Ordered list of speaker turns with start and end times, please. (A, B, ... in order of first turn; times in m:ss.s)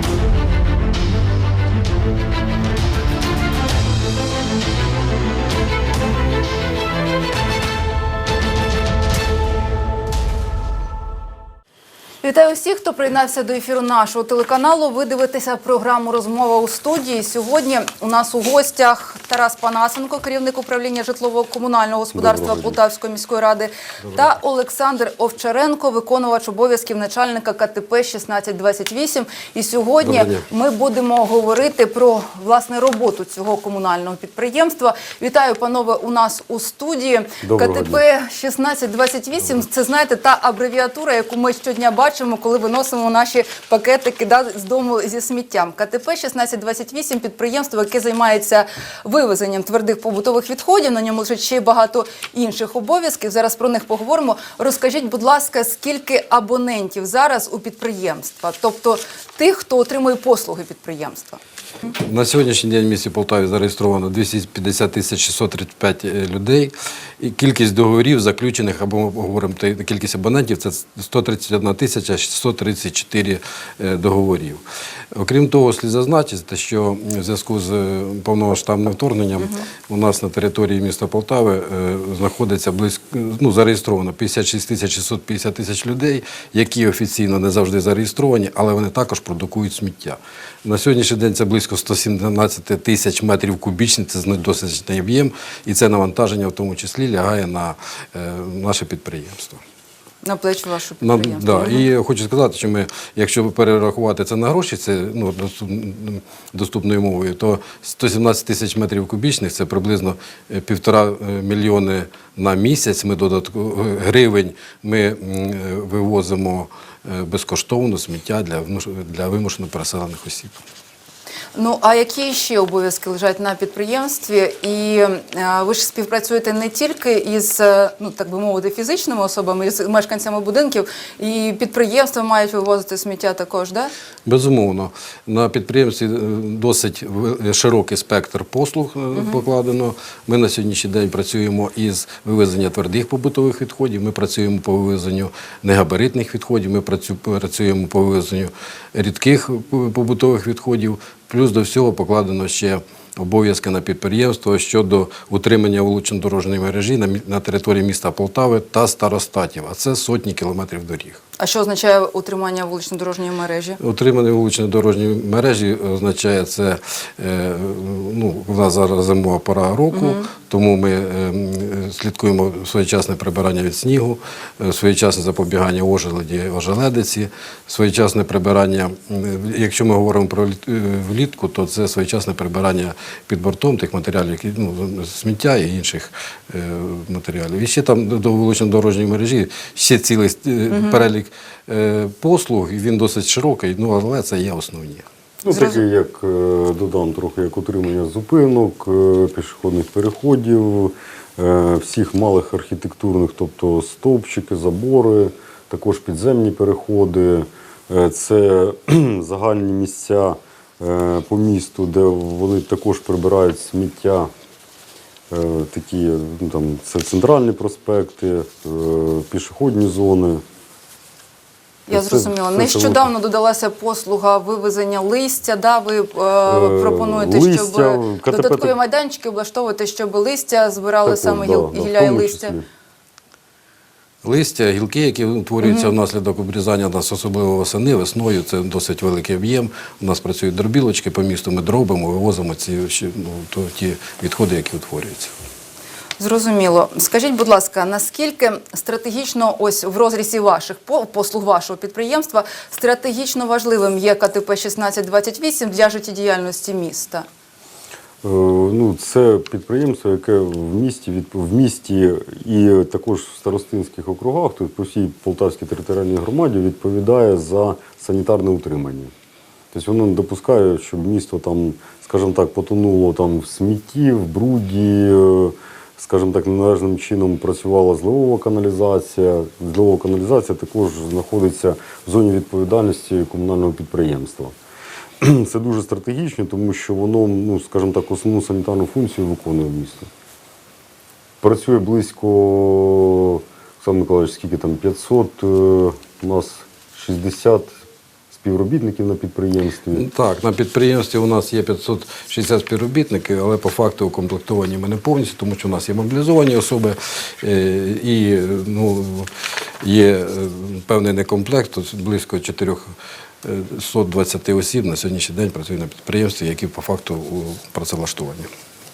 0:12.2-1:01.4 A
0:22.1-0:22.8 B
0:30.0-0:30.4 C
0:37.4-0:38.0 B
1:01.9-1:39.6 C
1:40.2-1:41.9 A
1:41.0-2:00.6 C
2:01.5-2:13.9 A
2:14.2-2:41.2 C
2:19.1-2:19.4 A
2:41.4-2:43.8 A
2:43.8-3:15.0 C
2:49.9-2:50.3 A
3:10.7-3:11.0 A
3:15.4-3:34.3 B
3:15.5-3:15.8 A
3:35.3-3:40.4 B
3:41.9-3:52.5 A
3:41.9-3:43.1 B
3:46.4-3:48.8 B
3:51.0-3:52.6 B
3:54.2-4:05.3 C
3:55.6-3:55.9 A
4:06.2-4:17.2 A
4:18.2-4:29.1 B
4:29.7-4:44.5 B
4:45.2-4:50.1 B
4:51.4-4:57.8 B
4:58.3-5:00.0 B
4:59.9-5:09.3 C
5:09.8-5:12.9 C
5:13.4-5:18.5 C